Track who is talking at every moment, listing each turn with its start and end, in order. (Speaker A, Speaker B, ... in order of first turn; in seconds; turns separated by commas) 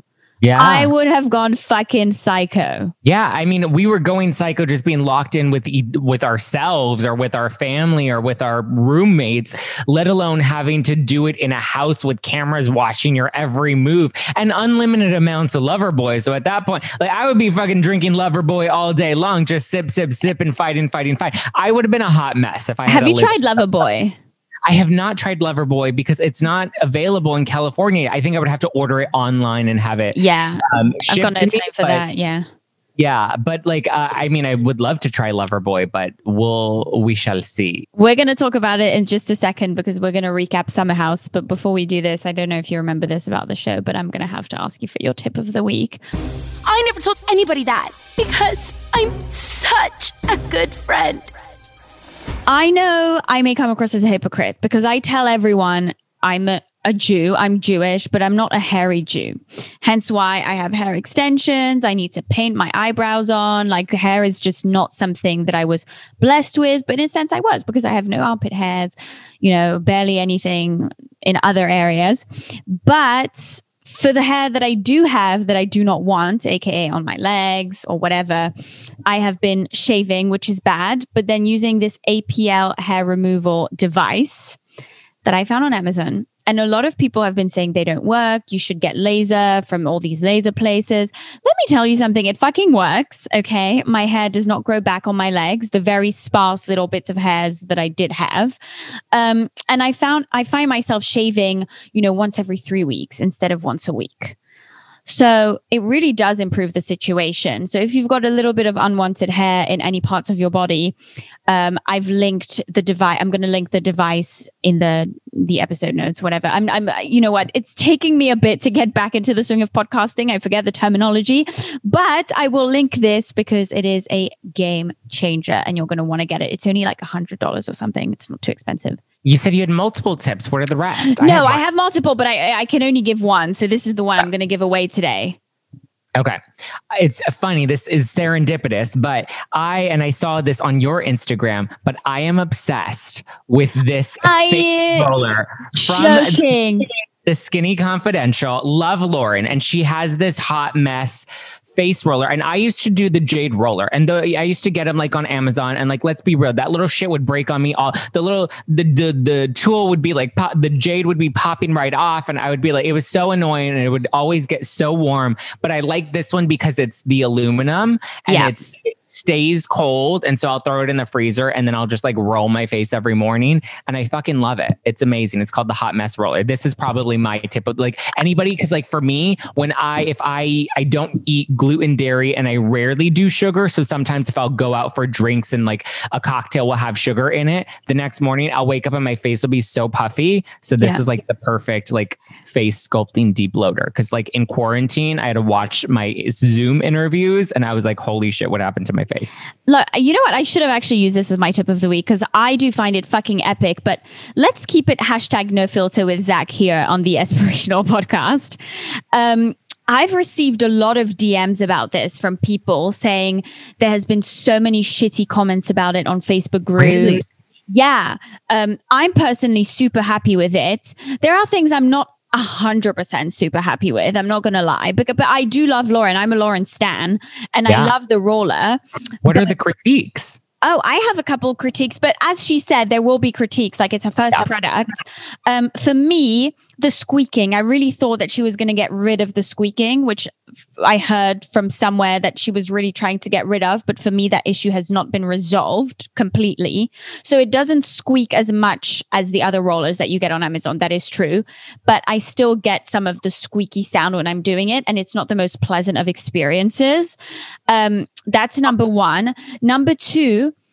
Speaker A: 0.4-0.9, Speaker B: 0.6-2.9, Speaker A: 3.0-23.4, Speaker B: 22.9-24.2, Speaker A: 24.7-30.2, Speaker B: 30.1-32.4, Speaker A: 30.7-32.0, Speaker A: 33.0-37.9, Speaker B: 38.0-46.0, Speaker C: 46.6-51.3, Speaker B: 52.5-78.5, Speaker B: 79.1-84.6, Speaker B: 85.2-98.6, Speaker B: 99.1-104.4, Speaker B: 105.1-110.9, Speaker B: 111.5-129.0, Speaker A: 129.2-131.6, Speaker B: 131.0-135.4, Speaker A: 136.2-136.4, Speaker A: 136.9-151.2, Speaker B: 144.2-145.1, Speaker B: 145.8-146.9, Speaker A: 151.8-199.3, Speaker B: 168.3-168.6, Speaker B: 199.7-208.6, Speaker B: 209.1-229.5, Speaker A: 216.8-217.2, Speaker A: 227.7-227.9, Speaker A: 229.2-230.4, Speaker B: 230.6-257.2, Speaker B: 257.7-260.6